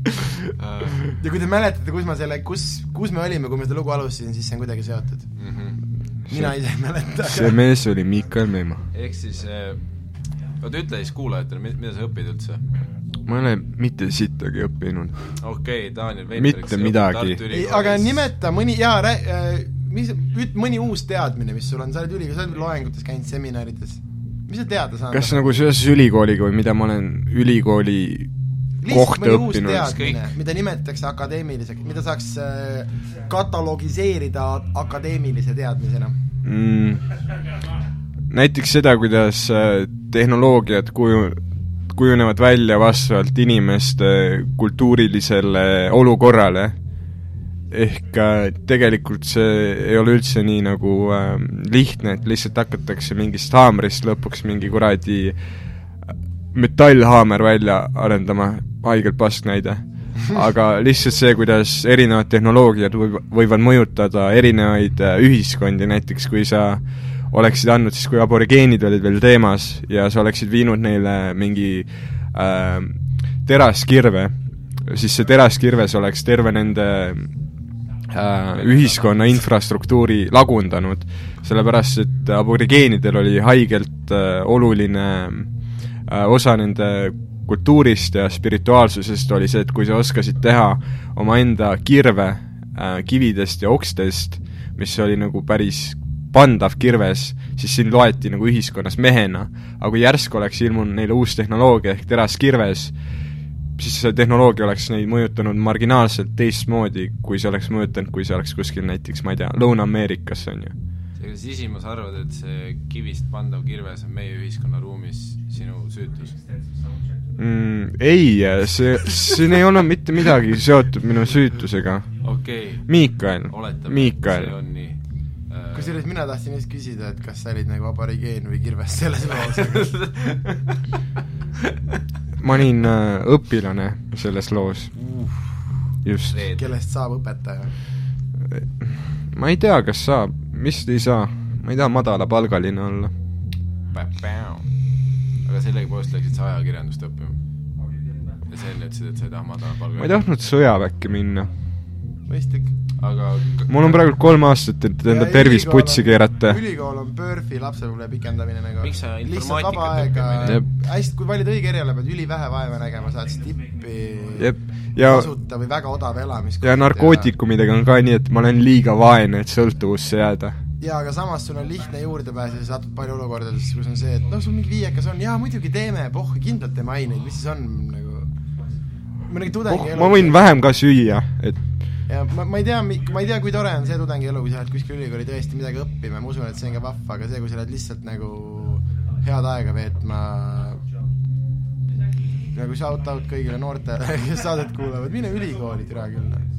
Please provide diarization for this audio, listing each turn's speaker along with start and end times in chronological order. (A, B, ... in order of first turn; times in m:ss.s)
0:00.6-0:01.1 A
0:01.1-0:05.3 B
0:05.4-0:05.8 A
0:06.3-0:06.6 C
0:06.3-0:07.6 B
0:07.3-0:08.8 C
0:08.9-0:09.8 A
0:10.6-0:12.6 A
0:13.3-0:15.4 C
0:15.4-0:18.3 A
0:16.3-0:17.4 C
0:17.5-0:25.7 B
0:25.1-0:28.3 C
0:28.8-0:36.2 B
0:28.8-0:30.0 C
0:29.8-0:30.3 A
0:36.4-0:37.0 C
0:38.3-0:46.8 C
0:47.7-0:55.4 C
0:56.5-1:17.3 C
1:18.1-1:25.5 C
1:18.6-1:19.4 A
1:26.1-1:42.9 C
1:43.8-1:50.8 C
1:51.2-1:56.4 A
1:57.4-2:02.1 C
2:02.2-2:03.0 A
2:02.9-2:04.5 C
2:03.5-2:06.0 A
2:05.7-2:10.0 B
2:09.4-2:10.8 A
2:12.4-2:14.9 C
2:15.0-2:15.6 A
2:16.0-2:16.4 C
2:16.3-2:16.7 A
2:16.6-2:17.7 B
2:18.5-2:23.1 C
2:23.9-2:24.7 A
2:25.4-2:27.4 A
2:28.5-2:30.2 A
2:30.0-2:31.5 C
2:32.3-2:32.7 B
2:33.0-2:34.1 A
2:33.7-2:36.6 C
2:35.0-2:47.3 B
2:38.8-2:40.6 A
2:44.4-2:45.3 C
2:46.6-2:50.6 C
2:50.8-2:58.3 B
2:59.3-3:00.5 B
2:59.7-3:01.6 C
3:02.1-3:10.8 B
3:12.5-3:16.4 B